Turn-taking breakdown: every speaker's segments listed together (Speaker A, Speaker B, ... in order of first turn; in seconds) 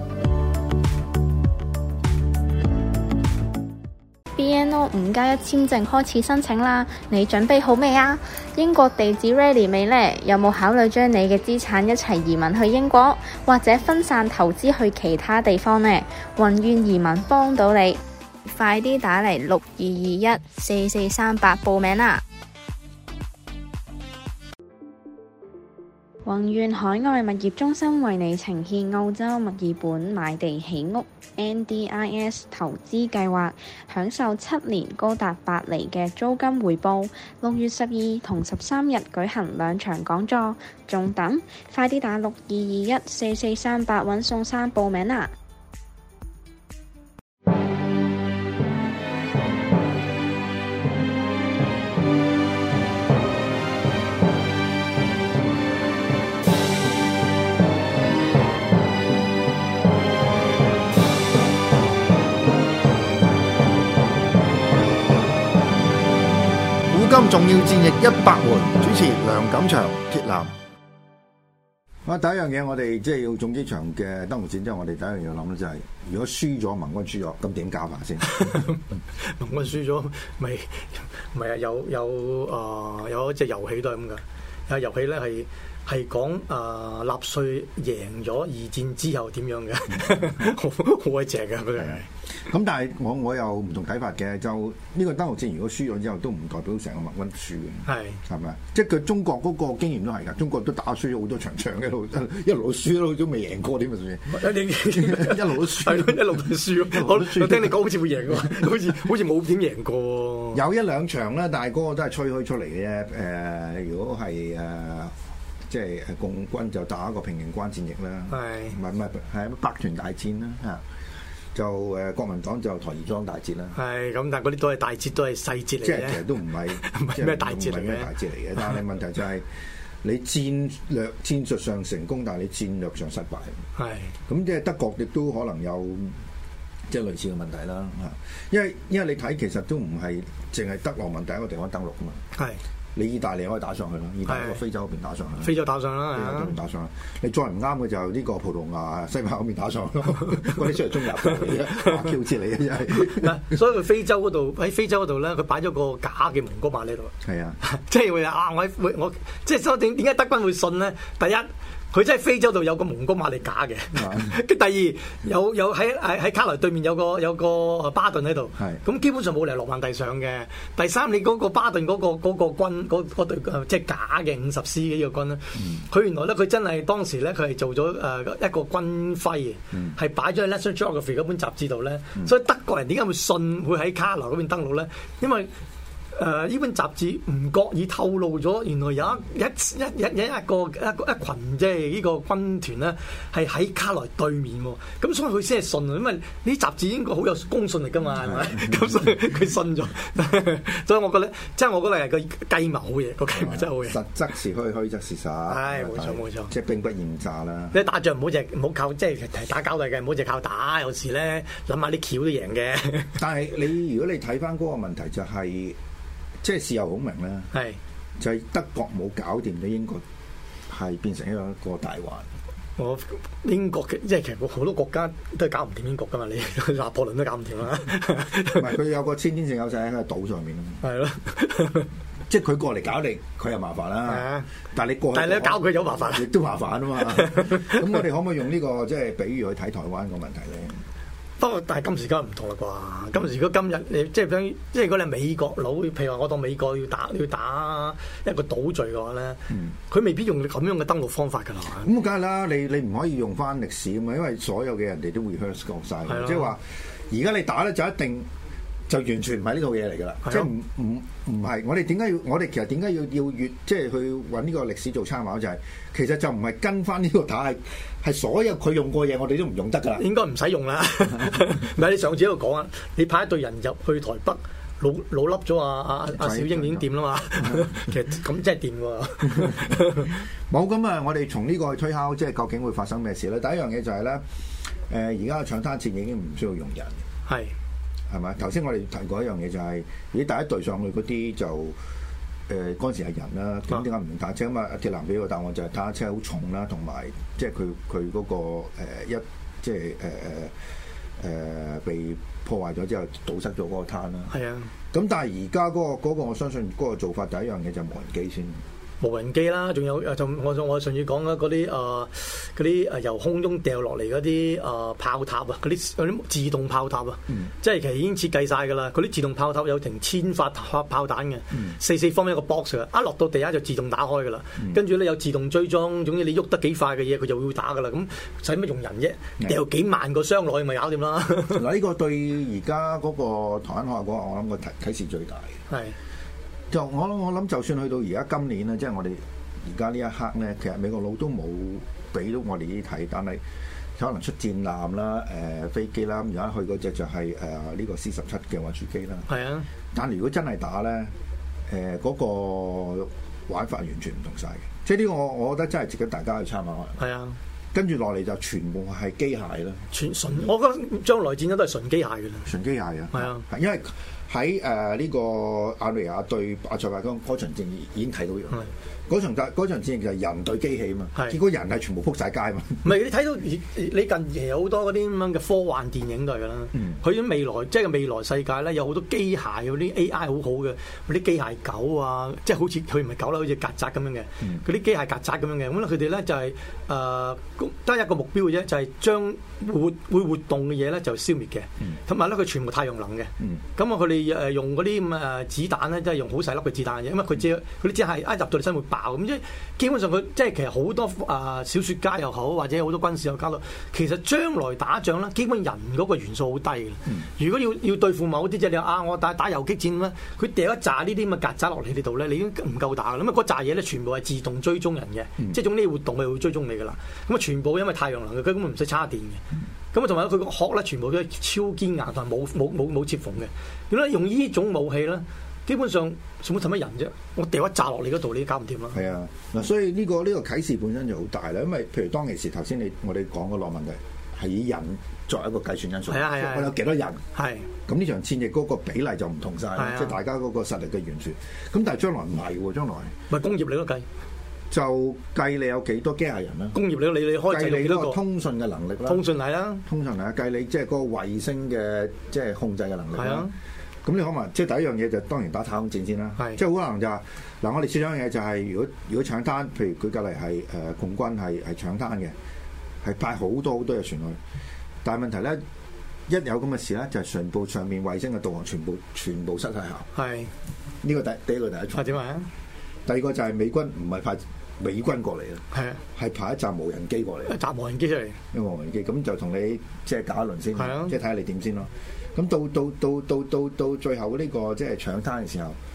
Speaker A: 4.4-22.2, 26.2-45.3
Speaker B: 66.9-70.5, 72.0-78.7, 90.0-90.5, 91.8-108.9, 110.5-115.2, 115.7-120.8, 121.5-123.8, 125.8-129.5, 130.0-133.6, 134.3-136.2, 136.9-142.2, 142.9-153.6, 157.2-157.6, 163.9-164.4, 168.6-168.8, 175.6-175.9, 179.7-180.0, 198.2-199.1, 203.3-207.8, 213.2-215.8, 216.4-217.5, 218.2-220.0, 220.7-222.3, 228.5-230.8, 232.3-240.8, 251.8-258.3, 258.9-270.1, 276.1-277.9, 279.2-284.2, 284.9-287.0, 288.1-291.8, 292.5-300.5, 301.2-304.3, 304.9-308.6, 321.5-321.8, 331.5-335.6, 336.7-343.4, 344.0-349.3, 349.9-351.1, 351.7-357.0, 357.7-359.9, 362.4-372.9, 428.9-437.2, 437.9-443.1, 444.7-446.8, 447.4-449.2, 449.9-453.5, 454.0-462.4, 463.0-464.4, 465.0-465.6, 466.3-470.1, 471.0-472.2, 473.1-475.6, 476.1-477.6, 478.5-485.8
Speaker C: 78.3-92.1, 97.9-98.2, 104.3-110.6, 118.3-118.8, 123.8-126.2, 126.8-128.8, 133.8-134.1, 142.3-142.6, 144.3-144.6, 145.4-146.6, 151.4-152.1, 152.9-185.5, 186.1-204.0, 205.5-206.5, 207.7-213.2, 217.5-217.8, 222.8-228.7, 230.8-231.9, 234.1-234.5, 235.1-236.3, 237.0-237.9, 241.4-251.9, 256.1-256.5, 260.2-260.5, 270.0-280.1, 287.3-287.6, 304.3-304.7, 309.0-331.6, 335.7-336.0, 349.3-349.7, 357.0-357.4, 359.9-362.5, 363.1-363.4, 372.8-429.0, 436.1-436.8, 437.3-437.7, 439.8-440.2, 443.3-444.1, 446.7-448.2, 449.1-449.8, 453.1-453.5, 470.1-470.5, 471.9-472.5, 475.7-476.0, 477.5-478.4, 480.8-481.1